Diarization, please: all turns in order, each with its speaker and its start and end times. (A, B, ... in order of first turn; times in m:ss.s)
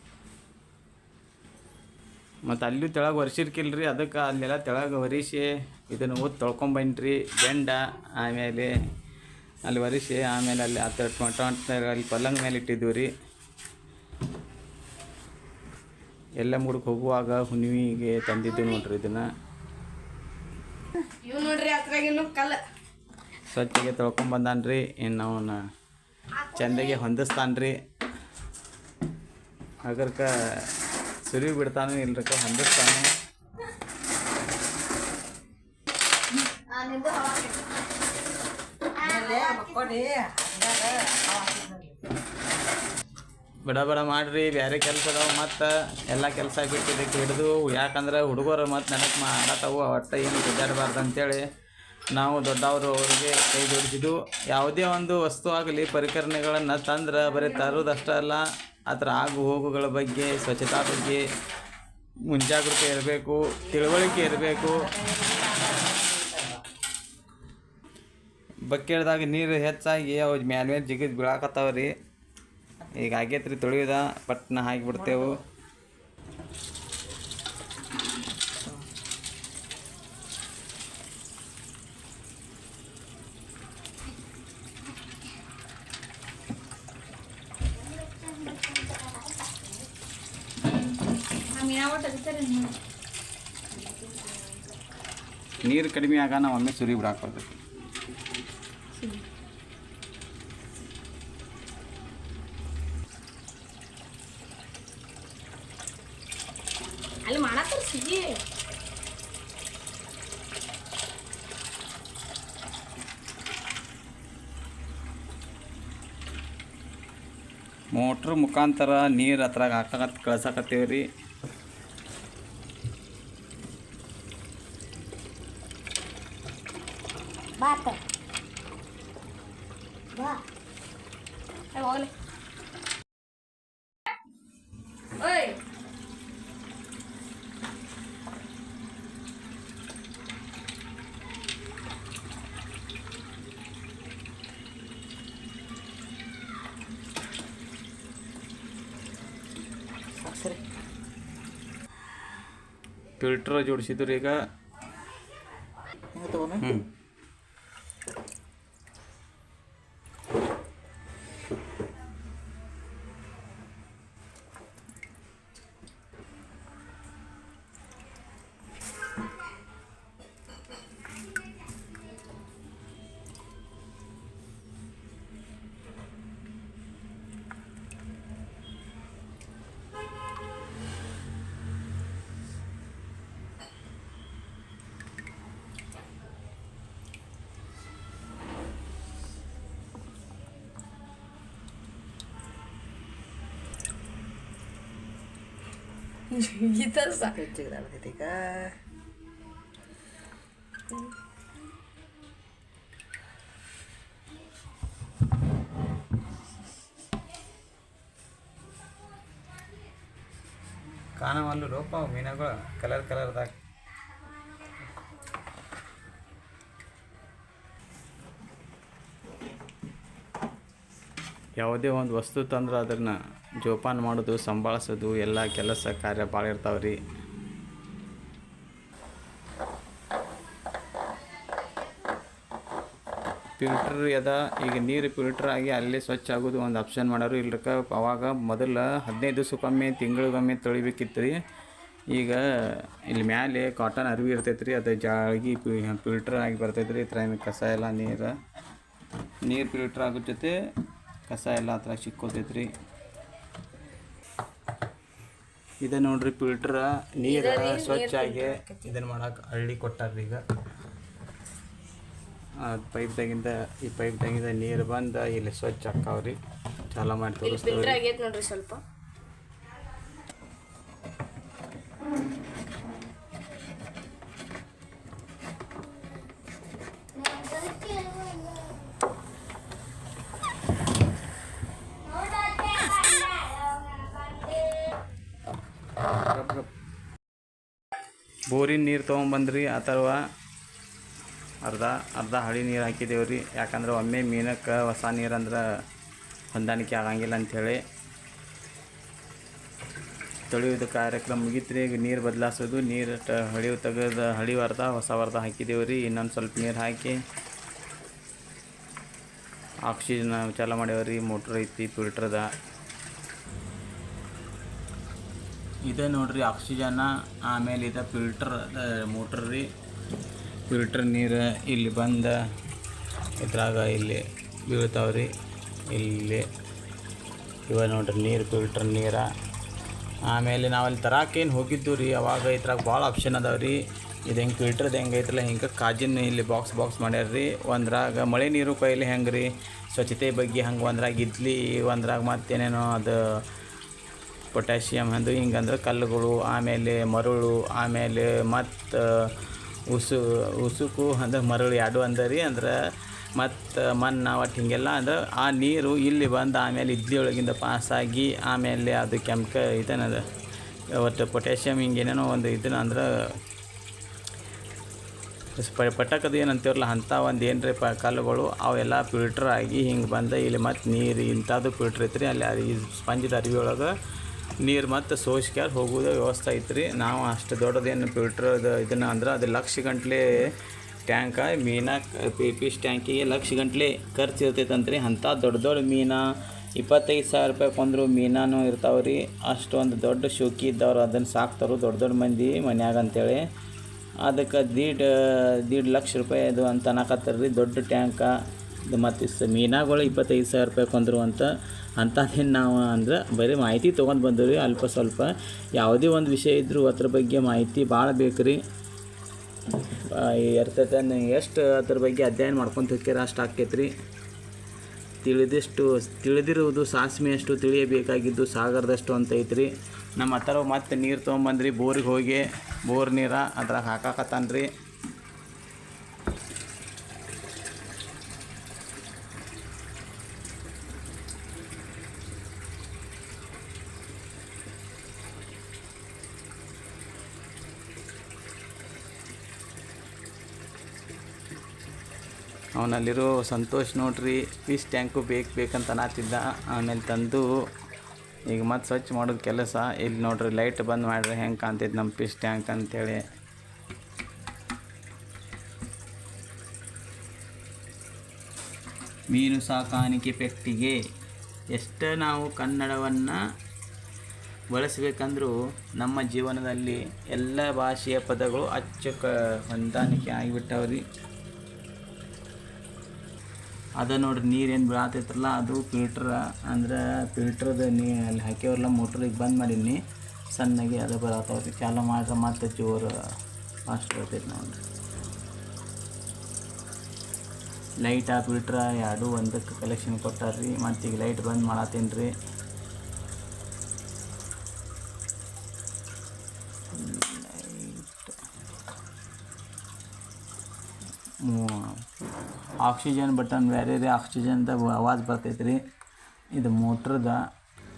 0:02.4-0:08.7 A
0:09.6-0:13.1 A
0:16.4-0:19.3 A
0:21.2-0:22.6 B
0:23.5-0:25.6 A
0:26.5-0:27.8 A
0:29.8-0:30.7 A
0:31.2-0:33.1 A
0:36.7-0:37.6 B
0:39.0-0:39.9 B
0:39.0-0:42.0 C
0:43.6-0:51.4 A
0:52.1-1:01.2 A
1:02.3-1:04.9 A
1:04.9-1:06.6 C
1:08.7-1:11.9 A
1:12.9-1:15.4 A
1:28.2-1:29.3 B
1:31.5-1:32.8 B
1:33.8-1:34.6 B
1:35.6-1:37.5 A
1:39.0-1:39.2 B
1:47.2-1:48.4 B
1:57.9-2:01.1 A
2:07.6-2:08.0 B
2:10.1-2:10.4 B
2:11.7-2:12.1 B
2:15.2-2:15.6 B
2:30.2-2:30.6 C
2:33.2-2:34.4 A
2:36.1-2:36.6 C
2:36.6-2:36.9 A
3:16.3-3:17.4 B
3:17.2-3:18.8 C
3:31.2-3:33.6 A
3:41.6-3:47.0 A
3:53.6-4:01.4 A
4:02.1-4:08.4 A
4:09.4-4:10.6 A
4:11.3-4:12.7 A
4:15.8-4:20.4 A
4:17.2-4:18.8 B
4:22.6-4:26.4 A
4:26.9-4:28.0 A
4:27.4-4:28.8 B
4:37.2-4:38.8 B
4:42.0-4:44.9 B
4:46.1-4:46.7 A
4:48.5-4:50.2 A
4:51.6-4:55.6 A
4:56.5-4:57.8 A
5:00.5-5:07.2 A
5:09.8-5:12.5 A
5:15.8-5:19.7 A
5:20.7-5:22.4 A
5:23.4-5:25.3 A
5:25.9-5:26.5 A
5:27.7-5:29.2 A
5:30.3-5:43.2 A
5:44.5-5:49.3 A
5:49.9-5:52.7 A
5:53.4-6:00.2 A
6:01.0-6:03.1 A
6:05.6-6:13.9 A
6:14.6-6:20.2 A
6:21.1-6:26.2 A
6:26.8-6:33.4 A
6:34.2-6:38.3 A
6:38.9-6:48.6 A
6:50.1-6:53.9 A
6:55.2-7:04.7 A
7:22.8-7:27.5 A
7:28.5-7:33.2 A
7:39.3-7:41.0 A
7:41.7-7:43.4 A
7:44.7-7:51.0 A
7:54.0-8:00.0 A
8:00.5-8:03.1 A
8:03.9-8:04.8 A
8:08.0-8:12.3 A
8:16.9-8:18.3 A
8:21.4-8:22.0 A
8:22.8-8:25.8 A
8:26.6-8:27.4 A